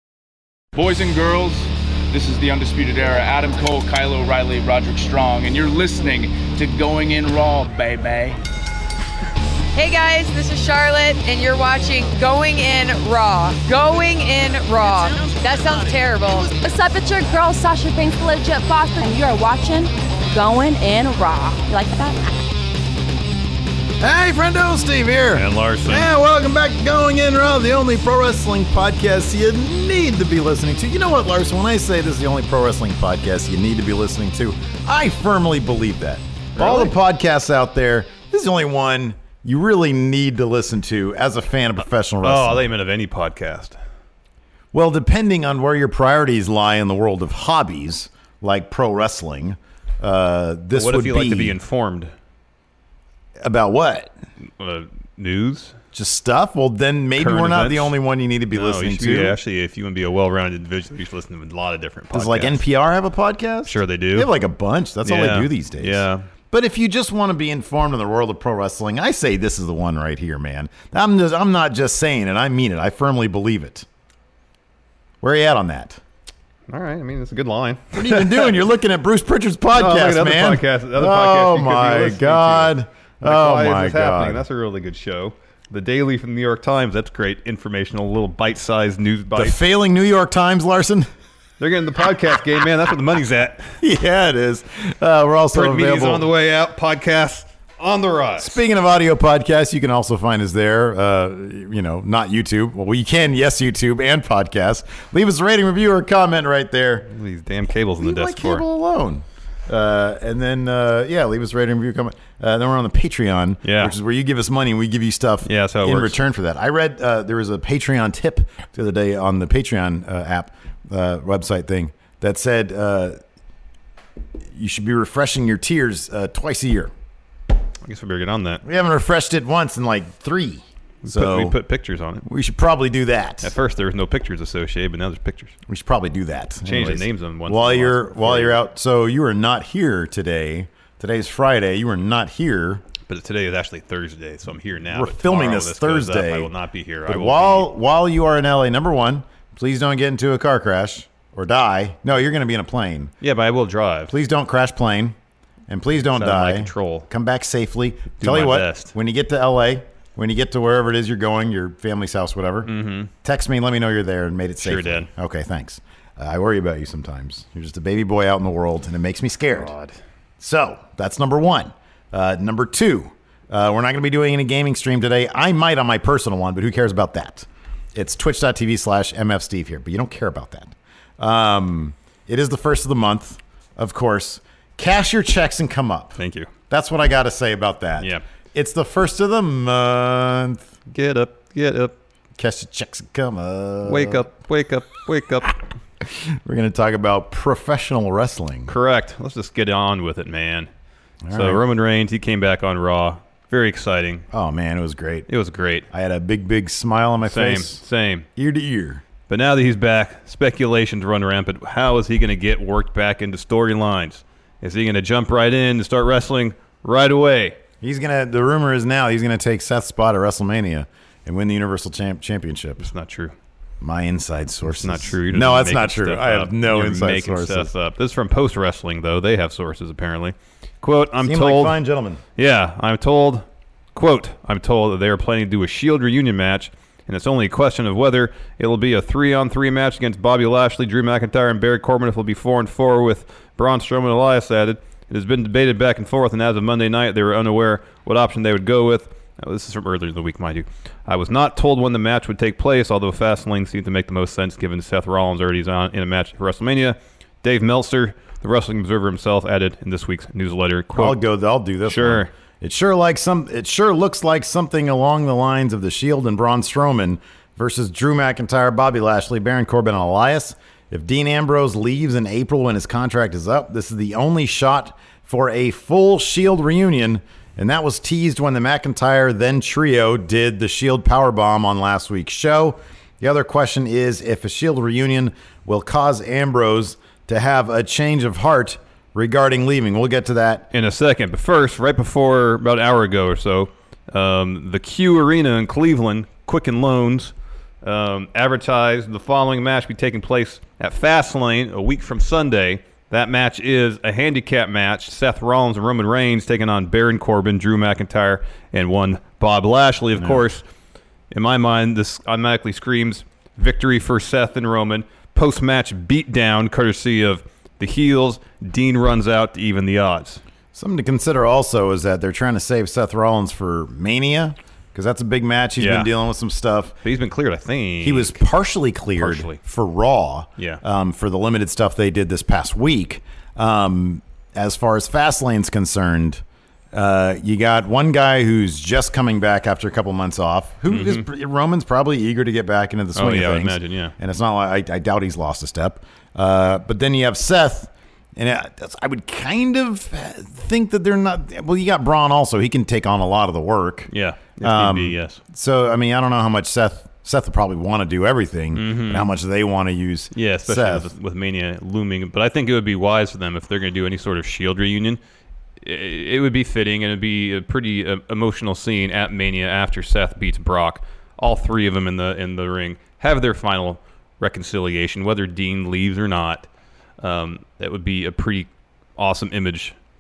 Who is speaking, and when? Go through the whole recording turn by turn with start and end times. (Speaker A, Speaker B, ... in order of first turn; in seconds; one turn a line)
Speaker A: 0.7-8.4
Speaker B: 9.7-16.6
Speaker C: 16.6-22.3
Speaker D: 24.0-42.7
Speaker E: 25.3-26.1
Speaker E: 36.5-36.9
Speaker E: 42.2-43.8
Speaker D: 44.7-51.6
Speaker E: 50.7-52.1
Speaker D: 53.4-54.1
Speaker E: 54.6-55.7
Speaker D: 55.9-59.4
Speaker E: 57.1-57.9
Speaker E: 58.5-62.6
Speaker D: 62.1-73.8
Speaker E: 63.6-64.3
Speaker E: 65.0-66.3
Speaker D: 75.2-76.0
Speaker E: 76.7-78.6
Speaker D: 77.9-84.4
Speaker E: 79.7-89.6
Speaker D: 89.3-91.1
Speaker E: 91.6-93.7
Speaker D: 93.8-96.3
Speaker E: 95.5-98.6
Speaker D: 98.4-107.1
Speaker E: 107.1-108.6
Speaker D: 108.0-123.2
Speaker E: 113.6-113.9
Speaker E: 115.4-116.2
Speaker D: 124.5-126.9
Speaker E: 127.8-128.6
Speaker D: 128.6-131.6
Speaker E: 131.0-132.2
Speaker D: 132.2-133.5
Speaker E: 133.4-135.5
Speaker D: 135.7-142.8
Speaker E: 136.6-138.6
Speaker E: 143.1-147.7
Speaker D: 144.9-146.5
Speaker D: 147.1-153.1
Speaker E: 153.2-154.1
Speaker D: 154.1-155.2
Speaker D: 155.7-162.7
Speaker E: 156.2-157.1
Speaker E: 158.2-158.9
Speaker E: 162.7-163.1
Speaker D: 163.2-169.7
Speaker E: 164.6-165.1
Speaker E: 169.6-169.9
Speaker D: 170.4-186.1
Speaker E: 186.2-186.5
Speaker D: 186.7-190.6
Speaker E: 188.0-188.2
Speaker E: 190.9-191.9
Speaker D: 192.4-194.2
Speaker E: 193.8-195.6
Speaker D: 196.0-198.7
Speaker E: 198.7-200.7
Speaker D: 201.2-201.6
Speaker E: 201.3-204.2
Speaker D: 204.3-205.3
Speaker E: 205.3-205.8
Speaker D: 205.9-207.8
Speaker E: 207.2-208.3
Speaker D: 208.3-209.0
Speaker E: 209.3-217.6
Speaker D: 217.8-222.9
Speaker E: 222.8-223.3
Speaker D: 223.8-227.7
Speaker E: 224.8-231.8
Speaker D: 231.2-232.2
Speaker E: 232.4-261.2
Speaker D: 260.9-290.7
Speaker E: 261.8-262.3
Speaker E: 290.7-310.6
Speaker D: 310.1-310.4
Speaker E: 311.3-320.4
Speaker D: 320.7-326.9
Speaker E: 325.8-326.1
Speaker E: 327.0-328.4
Speaker D: 328.0-354.1
Speaker E: 329.2-329.6
Speaker E: 340.9-341.2
Speaker E: 343.1-344.1
Speaker E: 354.1-355.4
Speaker D: 354.6-361.1
Speaker E: 358.7-359.3
Speaker E: 360.3-365.2
Speaker E: 365.8-376.7
Speaker E: 377.2-379.9